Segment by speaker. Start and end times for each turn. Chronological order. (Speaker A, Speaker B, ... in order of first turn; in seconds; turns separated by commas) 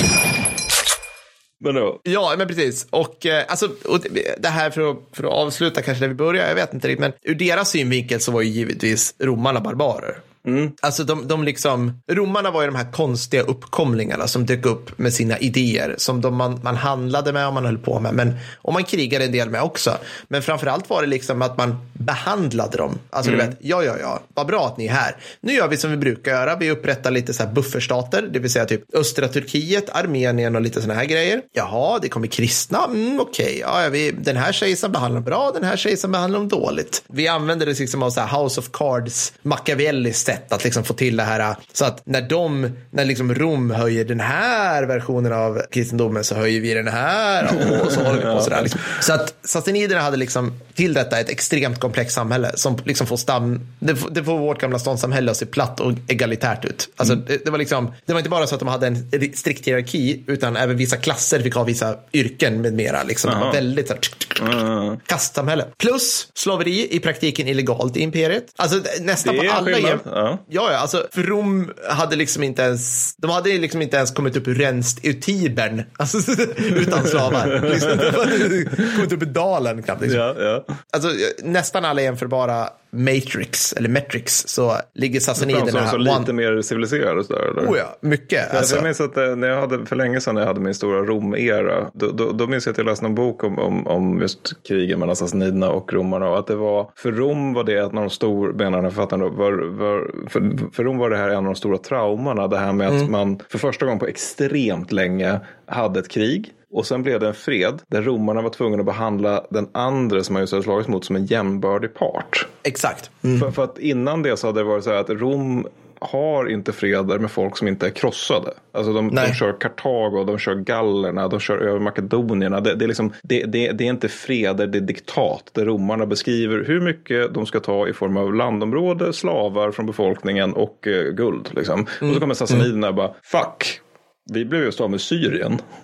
Speaker A: 1.6-2.0, Speaker B: 2.0-10.2, Speaker A: 10.4-10.7, Speaker B: 10.8-80.3, Speaker A: 48.0-48.8, Speaker A: 63.3-63.6, Speaker A: 64.4-65.0, Speaker A: 69.2-70.4, Speaker A: 77.4-78.3, Speaker A: 80.1-80.7, Speaker B: 80.9-86.3, Speaker A: 85.4-87.8, Speaker B: 87.6-88.9, Speaker A: 88.5-112.6, Speaker B: 112.7-113.5, Speaker A: 113.4-135.6, Speaker B: 119.1-119.4